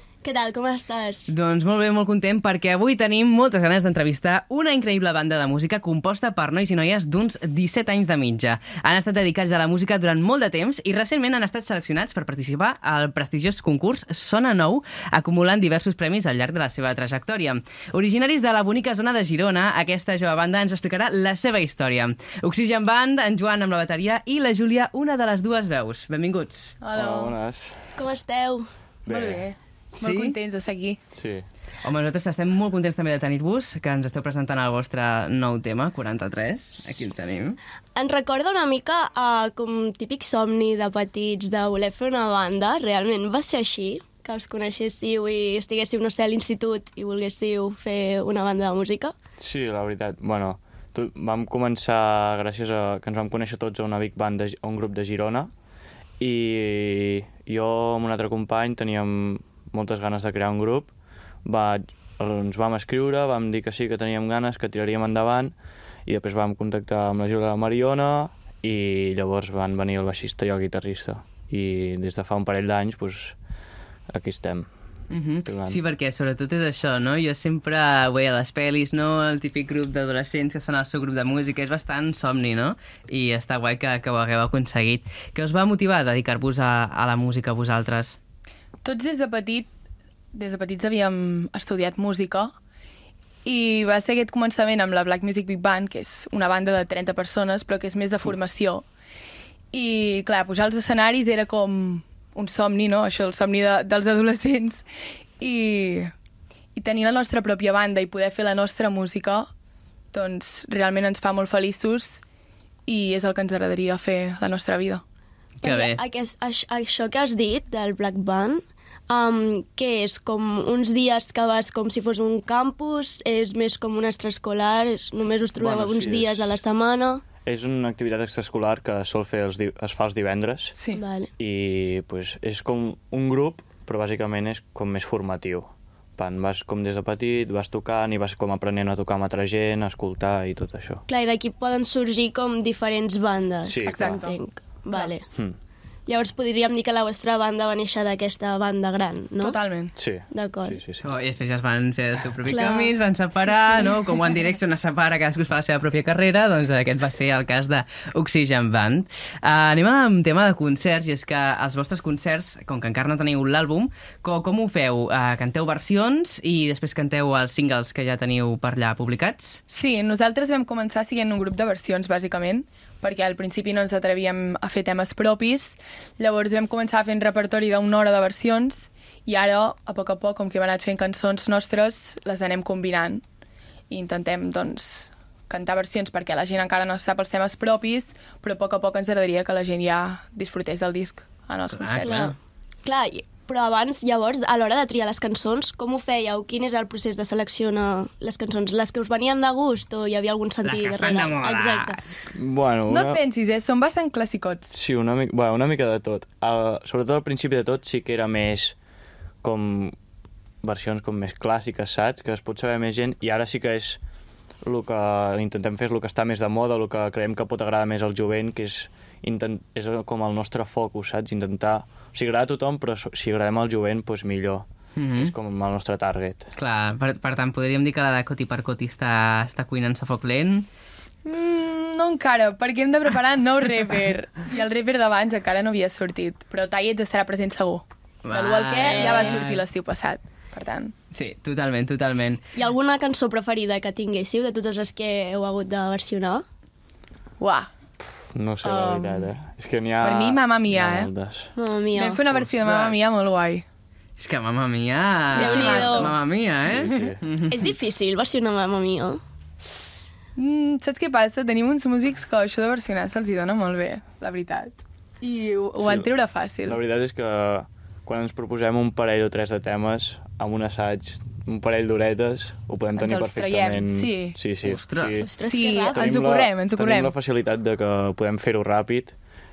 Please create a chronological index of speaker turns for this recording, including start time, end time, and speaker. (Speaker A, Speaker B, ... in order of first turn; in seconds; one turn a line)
Speaker A: 0.2-1.3
Speaker B: 1.3-26.8
Speaker C: 26.8-27.4
Speaker D: 26.9-27.8
Speaker A: 27.9-28.7
Speaker C: 29.1-31.0
Speaker D: 29.1-29.4
Speaker B: 30.0-30.4
Speaker D: 31.1-31.4
Speaker B: 31.8-37.6
Speaker A: 37.9-49.1
Speaker D: 49.4-55.5
Speaker D: 56.2-60.9
Speaker D: 61.4-65.5
Speaker D: 66.0-73.3
Speaker D: 74.1-74.7
Speaker B: 75.1-88.2
Speaker D: 75.4-75.8
Speaker C: 88.8-89.7
Speaker C: 90.3-92.5
Speaker C: 93.4-98.8
Speaker C: 99.7-104.8
Speaker C: 105.4-106.1
Speaker C: 106.8-109.5
Speaker C: 110.1-112.2
Speaker C: 112.9-115.0
Speaker B: 115.6-116.0
Speaker A: 115.6-127.2
Speaker D: 125.6-126.5
Speaker D: 127.4-130.8
Speaker C: 130.7-131.0
Speaker A: 130.9-131.3
Speaker D: 131.4-141.0
Speaker A: 141.1-145.2
Speaker D: 143.6-144.2
Speaker C: 143.8-144.4
Speaker A: 146.1-149.6
Speaker C: 149.4-149.9
Speaker D: 149.9-151.0
Speaker A: 150.3-150.8
Speaker B: 151.0-169.6
Speaker A: 152.5-152.9
Speaker C: 169.7-183.2
Speaker C: 183.9-192.3
Speaker B: 191.7-192.4
Speaker A: 192.0-202.0
Speaker B: 200.6-202.0
Speaker D: 202.3-203.2
Speaker C: 202.9-204.7
Speaker D: 204.7-208.8
Speaker D: 209.4-209.9
Speaker D: 210.6-214.0
Speaker D: 214.6-226.5
Speaker B: 224.9-225.3
Speaker B: 226.6-230.7
Speaker C: 231.2-240.9
Speaker B: 238.2-239.6
Speaker B: 241.1-242.4
Speaker A: 242.5-246.4
Speaker C: 247.4-247.7
Speaker D: 248.3-251.5
Speaker C: 248.6-249.3
Speaker C: 250.0-251.1
Speaker A: 251.5-252.2
Speaker C: 251.9-253.6
Speaker B: 252.4-253.1
Speaker B: 254.2-257.7
Speaker C: 255.3-256.1
Speaker A: 255.3-256.2
Speaker D: 256.6-257.2
Speaker A: 257.5-259.2
Speaker C: 260.4-266.8
Speaker D: 265.8-266.1
Speaker D: 266.6-275.3
Speaker C: 272.9-274.4
Speaker B: 274.6-275.2
Speaker A: 275.2-276.1
Speaker C: 275.4-277.1
Speaker D: 275.9-279.1